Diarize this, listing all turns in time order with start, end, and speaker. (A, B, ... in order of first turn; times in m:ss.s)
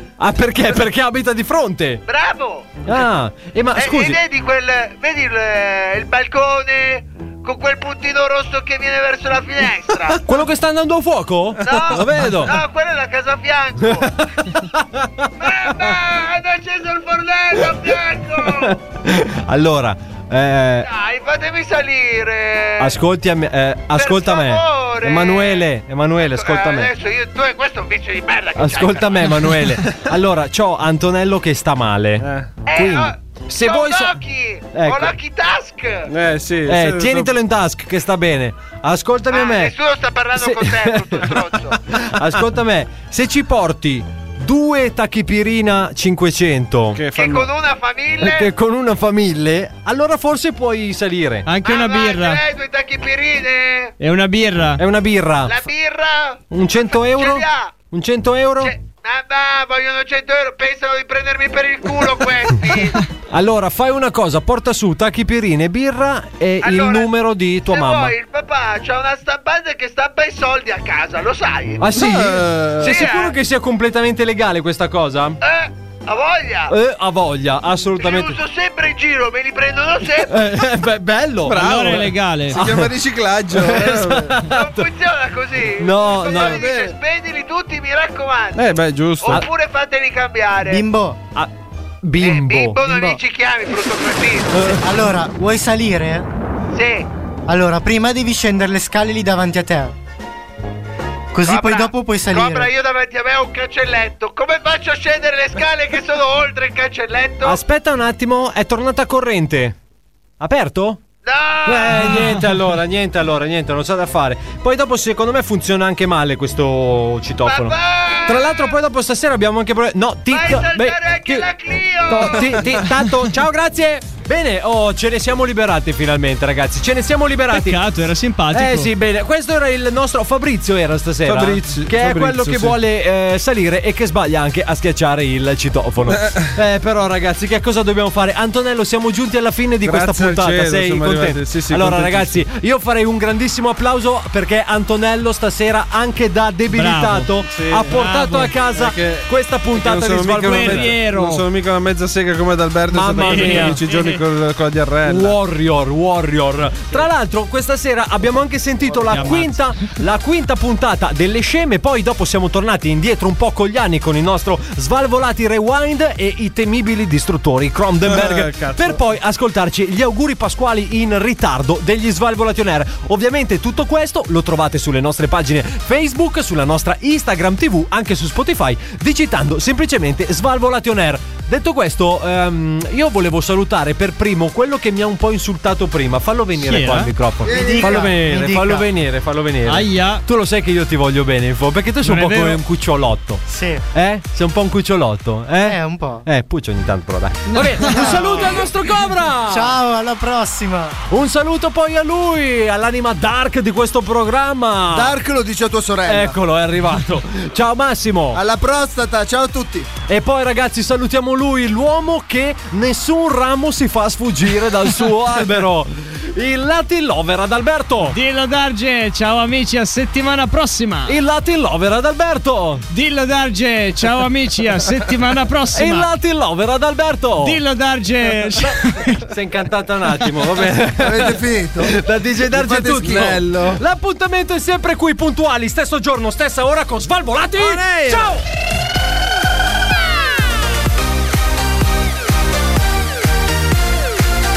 0:00.2-0:02.0 A
0:02.1-0:03.0 B
0:02.9-0:04.2 A
0:03.8-0:10.2 B
0:10.3-0:12.6 A
0:11.6-0:14.2 B
0:13.8-0:15.3 A
0:15.4-0:18.8 B
0:18.4-0:20.9 A
0:20.8-0:23.0 B
0:22.8-0:26.9 A
0:23.9-0:25.7 B
0:26.2-0:29.4 B
0:28.6-0:34.2 A
0:32.2-0:32.5 C
0:32.6-0:36.1 B
0:34.7-0:35.1 A
0:36.1-0:37.4 C
0:36.7-0:39.7 A
0:39.3-0:41.8 B
0:40.4-0:47.0 A
0:47.0-0:47.5 C
0:47.2-0:48.5 B
0:48.2-0:51.5 A
0:51.5-0:52.4 D
0:51.6-0:53.9 B
0:54.0-0:54.8 D
0:54.8-0:55.6 A
0:55.5-0:57.7 B
0:56.5-0:58.7 A
0:58.6-1:03.0 B
1:03.3-1:08.1 A
1:06.6-1:11.8 B
1:11.8-1:15.4 A
1:11.9-1:13.0 C
1:12.8-1:13.4 B
1:15.4-1:16.7 B
1:16.7-1:18.4 A
1:17.9-1:20.4 B
1:20.3-1:21.9 A
1:21.5-1:24.4 C
1:21.6-1:22.6 D
1:22.5-1:22.9 A
1:23.5-1:24.8 A
1:24.4-1:28.6 B
1:25.8-1:26.6 A
1:26.3-1:27.0 C
1:28.6-1:29.4 C
1:29.2-1:30.8 B
1:30.6-1:31.2 E
1:32.0-1:33.1 A
1:32.2-1:34.8 B
1:34.5-1:34.8 A
1:34.7-1:36.3 E
1:36.7-1:37.1 B
1:37.5-1:40.0 E
1:41.3-1:42.7 E
1:41.4-1:47.6 B
1:47.4-1:49.8 A
1:50.4-1:51.0 A
1:51.2-1:52.2 B
1:51.7-2:01.5 A
1:57.4-1:58.7 B
2:00.3-2:02.8 B
2:02.1-2:07.8 A
2:07.5-2:08.9 D
2:08.5-2:31.0 A
2:11.3-2:12.8 C
2:16.1-2:16.5 C
2:19.8-2:22.4 C
2:26.7-2:27.3 D
2:27.4-2:28.0 C
2:27.9-2:28.5 D
2:28.6-2:35.4 C
2:30.4-2:31.4 D
2:32.9-2:33.8 A
2:33.2-2:34.2 D
2:35.0-3:19.7 A
2:38.9-2:39.4 C
2:39.1-2:39.6 D
2:48.0-2:49.0 C
3:06.6-3:07.1 D
3:07.4-3:08.2 F
3:07.5-3:08.9 E
3:09.7-3:10.2 D
3:12.0-3:12.6 D
3:13.5-3:13.8 E
3:15.6-3:16.3 E
3:17.5-3:18.4 D
3:17.8-3:18.7 E
3:19.5-3:21.0 E
3:21.1-3:25.2 A
3:24.9-3:26.4 F
3:26.1-3:28.4 A
3:28.3-3:29.9 F
3:30.1-3:38.2 A
3:38.1-3:41.2 D
3:41.1-3:42.8 A
3:42.9-3:46.1 D
3:45.7-3:47.6 A
3:47.4-3:49.3 D
3:49.2-3:58.4 A
3:51.0-3:53.4 F
3:53.0-3:53.8 C
3:57.6-3:58.3 C